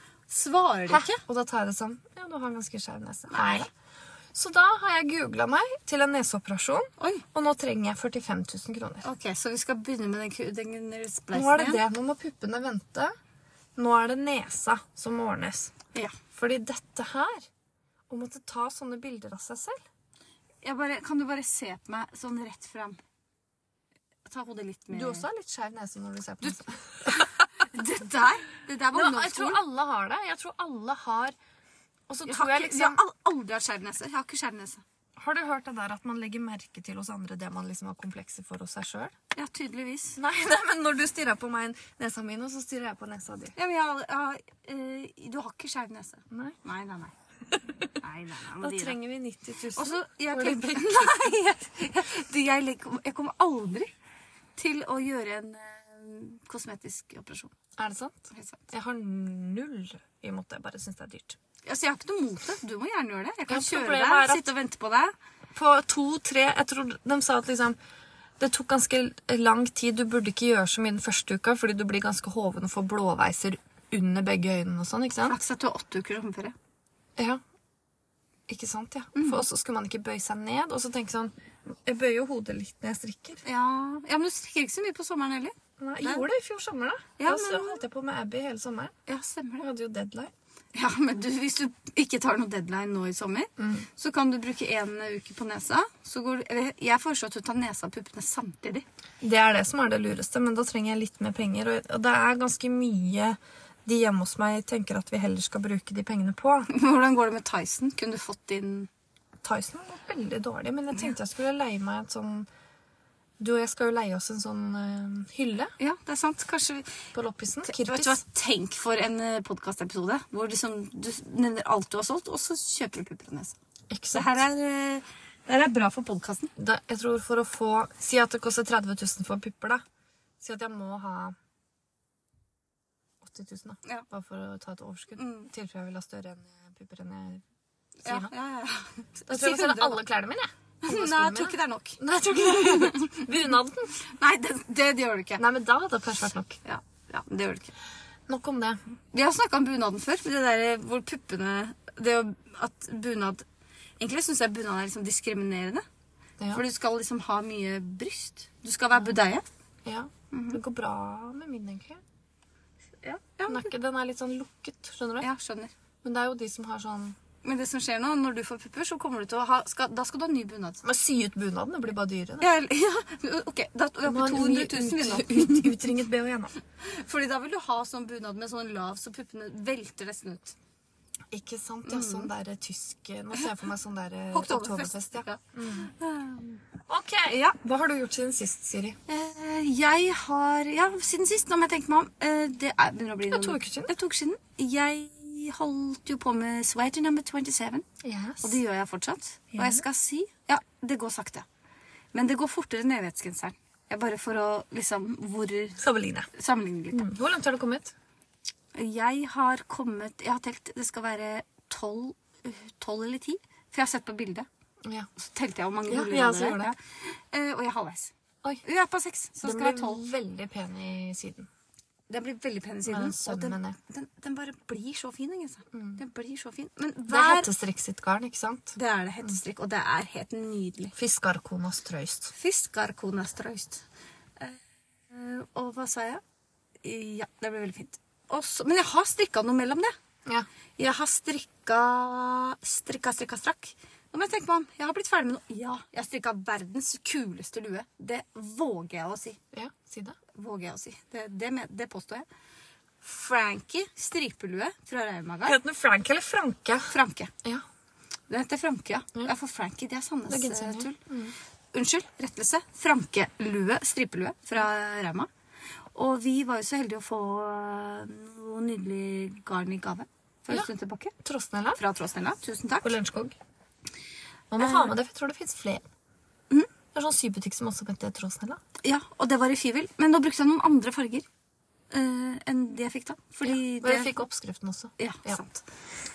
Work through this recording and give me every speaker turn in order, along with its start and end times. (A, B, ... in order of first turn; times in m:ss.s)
0:00.3-0:01.2 A
0:00.9-0:03.7 B
0:03.3-0:03.7 A
0:04.3-0:09.0 B
0:07.0-0:07.2 A
0:09.0-0:11.8 A
0:11.3-0:13.1 B
0:13.8-0:15.7 B
0:16.3-0:17.5 B
0:18.1-0:19.8 B
0:20.6-0:23.0 A
0:24.3-0:25.3 A
0:24.9-0:27.3 B
0:26.4-0:29.6 A
0:28.9-0:31.4 B
0:32.1-0:33.0 B
0:32.2-0:34.8 A
0:35.2-0:39.1 B
0:39.3-0:40.2 A
0:40.2-0:43.5 B
0:43.6-0:47.1 A
0:46.3-0:46.6 B
0:48.0-0:49.0 A
0:48.6-0:51.3 B
0:49.8-0:53.9 A
0:54.6-0:57.5 A
0:57.8-1:01.4 B
0:58.3-0:58.6 A
1:01.6-1:05.1 A
1:03.5-1:04.5 B
1:05.5-1:07.8 B
1:08.4-1:15.4 B
1:15.3-1:16.6 A
1:18.5-1:23.4 B
1:19.2-1:19.4 A
1:23.4-1:26.3 A
1:25.8-1:29.0 B
1:27.2-1:27.8 A
1:29.1-1:29.7 A
1:29.6-1:30.3 B
1:30.7-1:38.8 A
1:33.6-1:33.9 B
1:39.2-1:46.7 B
1:46.7-1:48.9 A
1:49.4-1:52.5 B
1:53.4-1:55.7 B
1:55.8-1:57.0 A
1:57.1-1:58.2 B
1:57.7-2:03.6 A
2:03.9-2:04.4 B
2:04.1-2:06.5 A
2:06.6-2:09.8 B
2:10.4-2:11.4 B
2:13.2-2:17.4 B
2:15.2-2:15.5 A
2:18.0-2:20.0 A
2:18.0-2:18.3 B
2:19.3-2:24.0 B
2:20.8-2:23.3 A
2:24.0-2:25.4 A
2:25.4-2:26.6 B
2:26.6-2:27.7 A
2:28.3-2:28.8 B
2:29.1-2:33.4 A
2:34.0-2:35.8 A
2:36.5-2:39.4 A
2:39.8-2:42.0 B
2:40.3-2:40.6 A
2:43.0-2:43.7 A
2:43.5-2:45.3 B
2:45.2-2:45.7 A
2:46.0-2:47.2 B
2:47.4-2:50.8 A
2:50.8-2:52.5 B
2:52.4-2:55.9 A
2:54.1-2:56.5 B
2:56.8-3:00.6 A
3:01.3-3:05.9 B
3:01.9-3:02.3 A
3:04.3-3:06.6 A
3:06.9-3:09.0 B
3:07.3-3:07.6 A
3:09.1-3:17.9 A
3:13.3-3:13.9 B
3:18.0-3:18.6 B
3:18.4-3:21.5 A
3:19.5-3:19.8 B
3:22.1-3:27.1 A
3:25.8-3:26.3 B
3:26.9-3:27.9 B
3:28.7-3:34.5 A
3:35.2-3:38.1 A
3:35.9-3:36.7 B
3:38.6-3:40.0 A
3:39.4-3:41.5 B
3:42.1-3:47.5 A
3:42.9-3:43.8 B
3:45.7-3:46.0 B
3:47.1-3:49.4 B
3:48.8-3:50.9 A
3:50.9-3:52.3 B
3:52.3-3:53.8 A
3:54.4-3:56.2 A
3:56.8-3:59.9 A
4:00.8-4:09.4 A
4:09.5-4:10.2 B
4:10.3-4:12.3 A
4:13.0-4:15.6 A
4:15.4-4:16.9 B
4:16.9-4:17.3 A
4:18.3-4:21.0 A
4:20.3-4:21.3 B
4:21.7-4:25.3 A
4:25.9-4:31.2 A
4:31.2-4:31.8 B
4:31.8-4:33.0 A
4:32.8-4:33.4 B
4:34.5-4:35.9 B
4:34.6-4:34.9 A
4:36.9-4:38.6 B
4:38.8-4:41.2 A
4:41.9-4:44.3 A
4:43.4-4:45.4 B
4:45.0-4:45.6 A